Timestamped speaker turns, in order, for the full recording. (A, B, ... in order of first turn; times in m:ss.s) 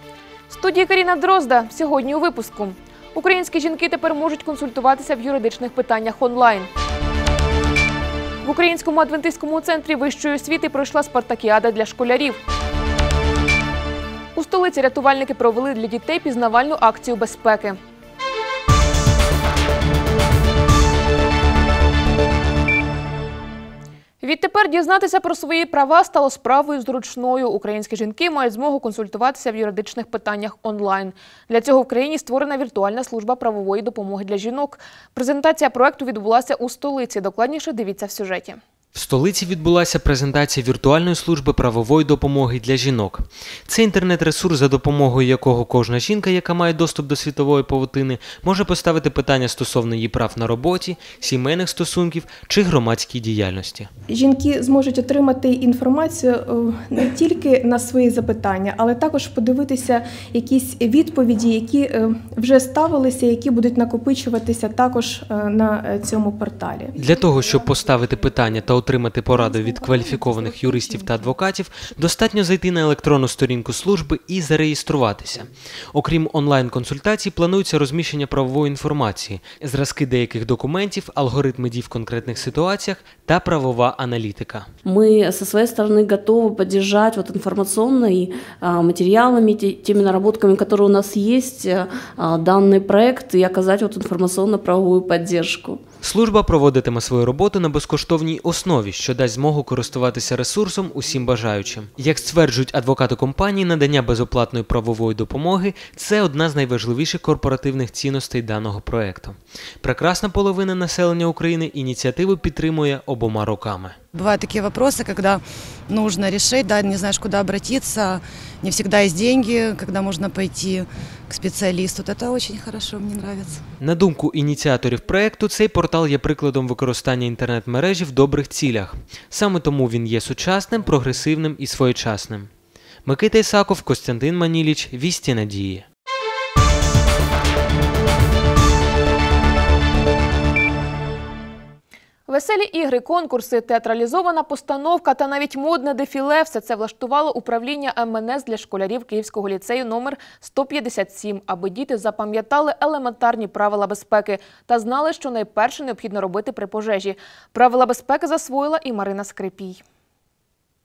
0:00.5-0:06.7 A
0:08.4-0:12.4 A
0:14.4-0:17.8 A
0:24.2-0:38.6 A
0:38.9-0:53.9 B
0:54.1-1:06.9 C
1:07.0-1:24.7 B
1:24.8-1:35.8 D
1:36.0-1:54.0 B
1:54.1-2:03.6 E
2:03.8-2:12.5 B
2:13.0-2:15.8 B
2:22.3-2:39.8 A